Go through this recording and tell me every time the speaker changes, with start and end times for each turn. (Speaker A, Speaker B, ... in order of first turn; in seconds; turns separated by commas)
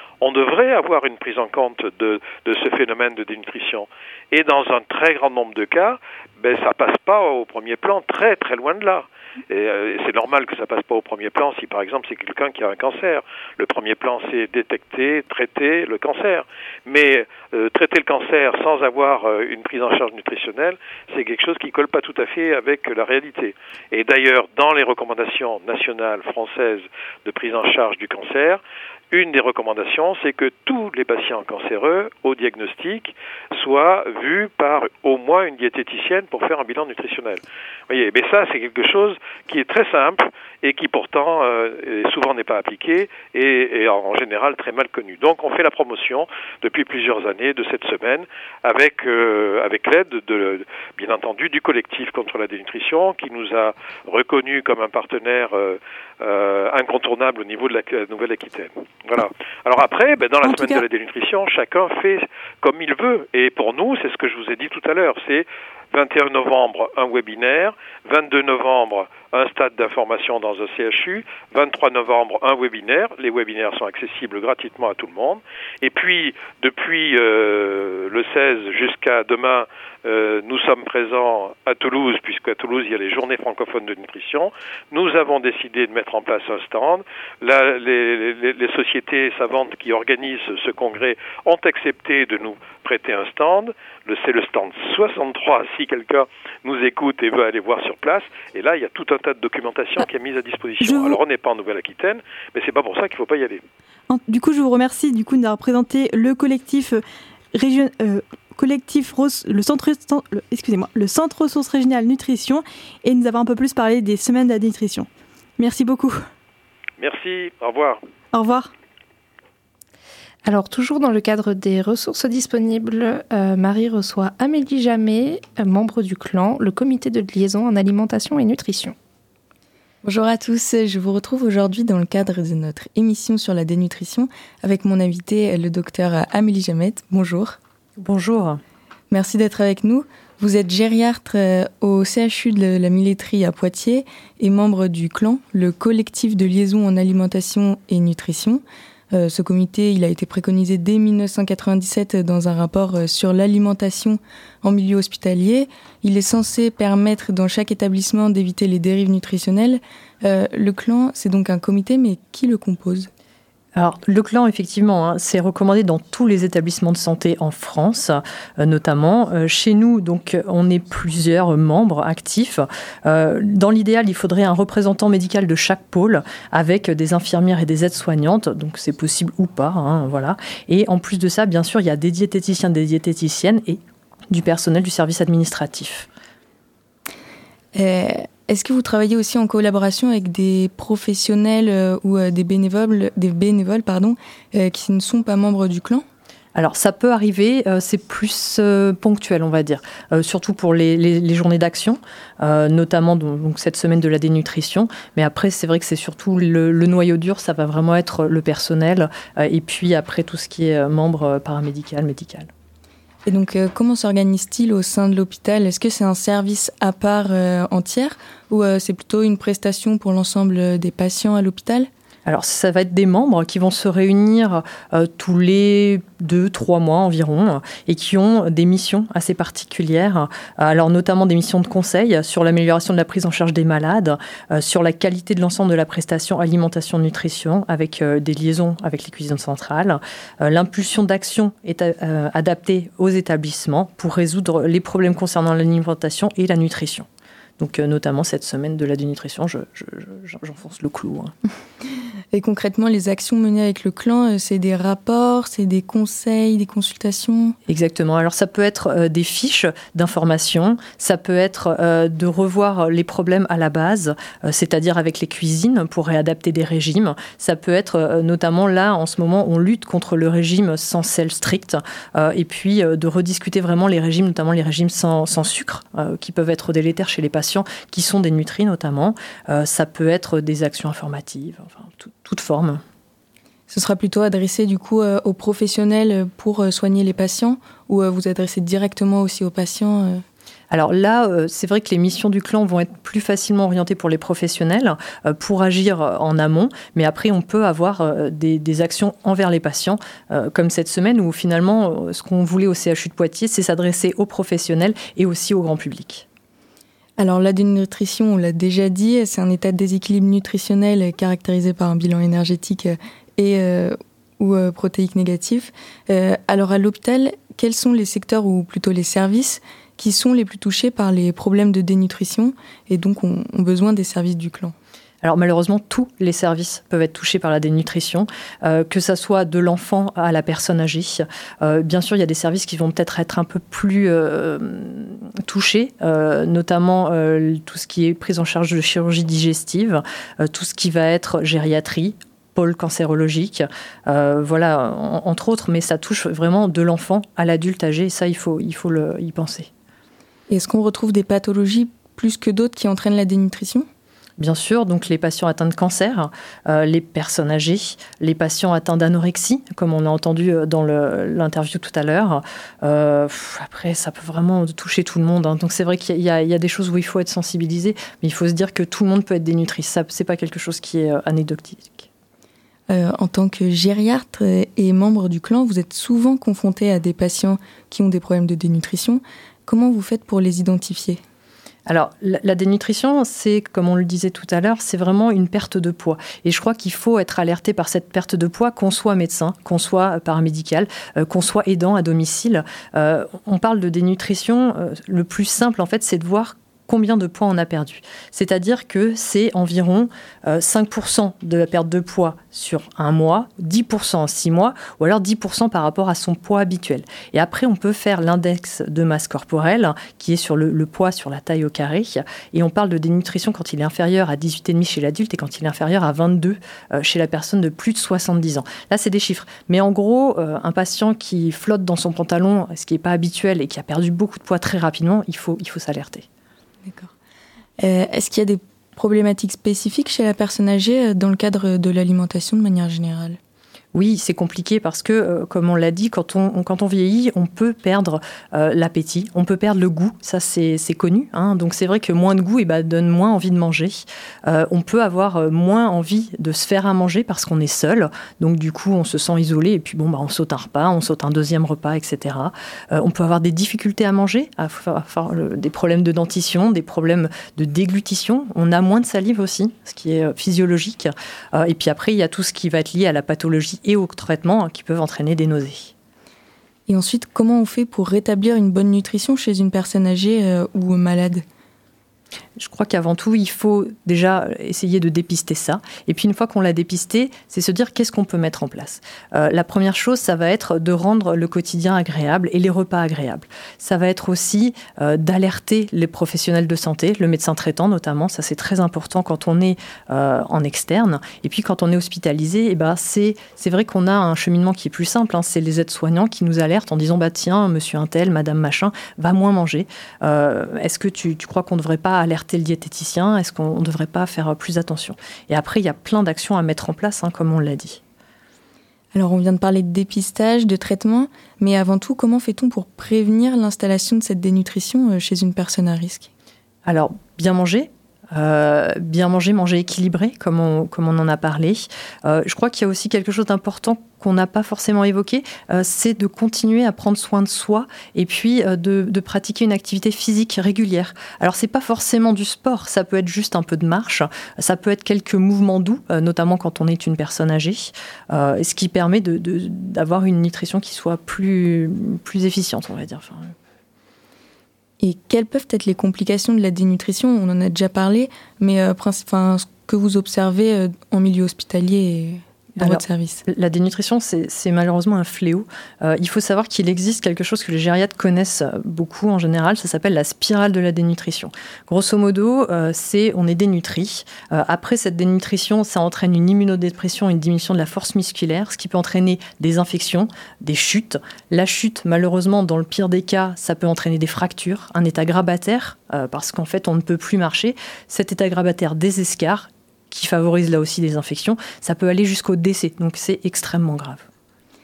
Speaker A: 0.2-103.6, Speaker B: 60.4-60.8, Speaker B: 100.8-101.2, Speaker B: 104.1-116.2, Speaker A: 117.0-118.0, Speaker B: 118.3-118.7, Speaker C: 120.4-128.9, Speaker D: 130.0-137.6, Speaker E: 138.0-138.6, Speaker D: 139.1-163.1, Speaker E: 163.8-183.8, Speaker E: 184.3-186.1, Speaker D: 187.7-196.0, Speaker E: 196.5-212.5, Speaker D: 213.2-221.9, Speaker E: 222.2-247.1, Speaker E: 247.6-251.3, Speaker D: 252.3-257.6, Speaker E: 257.7-282.8, Speaker D: 283.7-290.2, Speaker E: 290.7-306.2, Speaker D: 307.2-324.7, Speaker E: 325.2-349.7, Speaker D: 350.5-353.9, Speaker E: 354.4-372.1, Speaker D: 372.9-381.2, Speaker E: 381.9-426.2, Speaker D: 426.9-427.1, Speaker D: 427.8-433.4, Speaker E: 433.9-465.9, Speaker D: 466.9-471.4, Speaker E: 472.6-508.0, Speaker D: 509.1-516.3, Speaker E: 516.8-543.5, Speaker D: 545.0-553.4, Speaker E: 552.8-584.3